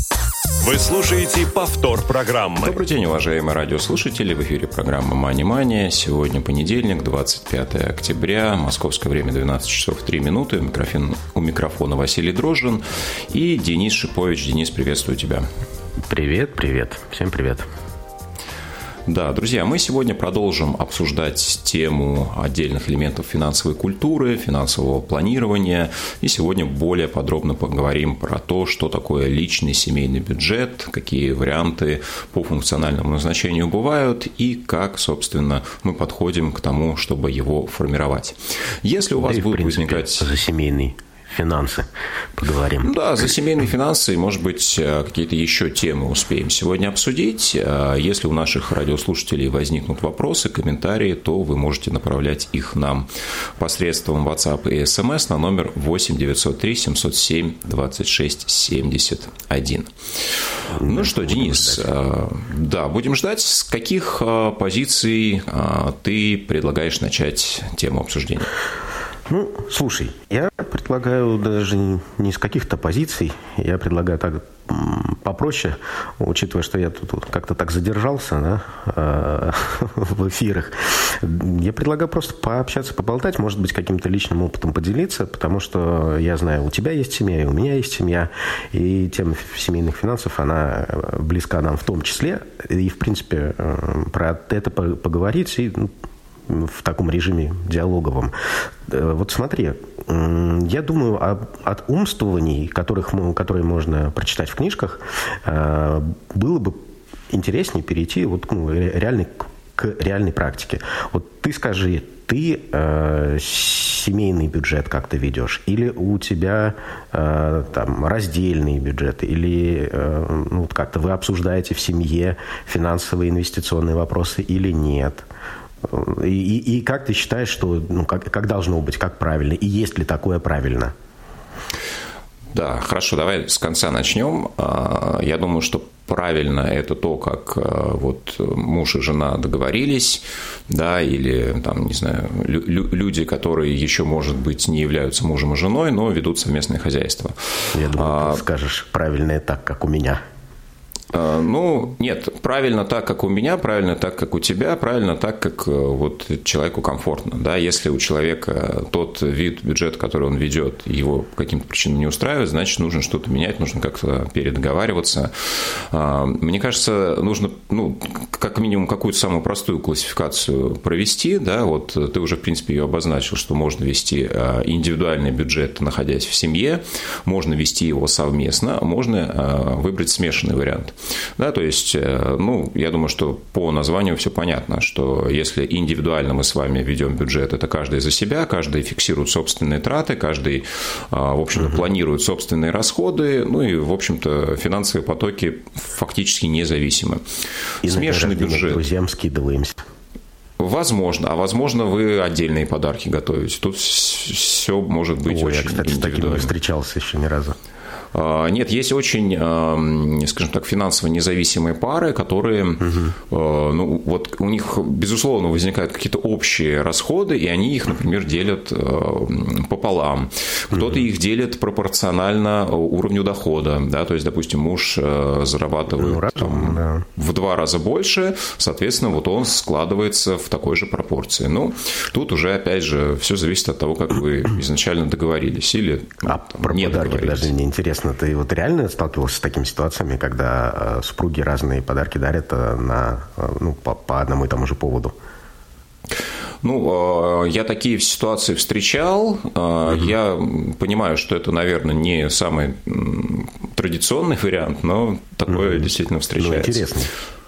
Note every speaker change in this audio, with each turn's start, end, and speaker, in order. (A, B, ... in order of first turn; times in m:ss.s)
0:00.6-0:02.8 A
0:02.6-0:15.4 B
0:16.1-0:17.7 C
0:19.1-0:40.3 B
0:39.2-0:42.9 C
0:42.8-0:59.9 B
1:00.7-1:08.5 B
1:00.8-1:01.9 C
1:09.3-1:35.9 C
1:36.5-1:38.3 C
1:38.8-2:05.3 C
2:05.8-2:10.9 C
2:12.5-2:28.4 B
2:27.7-2:30.2 C
2:31.1-3:17.2 B
3:17.8-3:18.8 B
3:17.8-3:19.8 C
3:20.6-3:26.5 B
3:25.3-3:27.6 C
3:28.1-3:57.5 B
3:46.0-3:47.0 C
3:56.3-4:05.2 C
4:06.6-4:16.9 B
4:15.5-4:17.1 C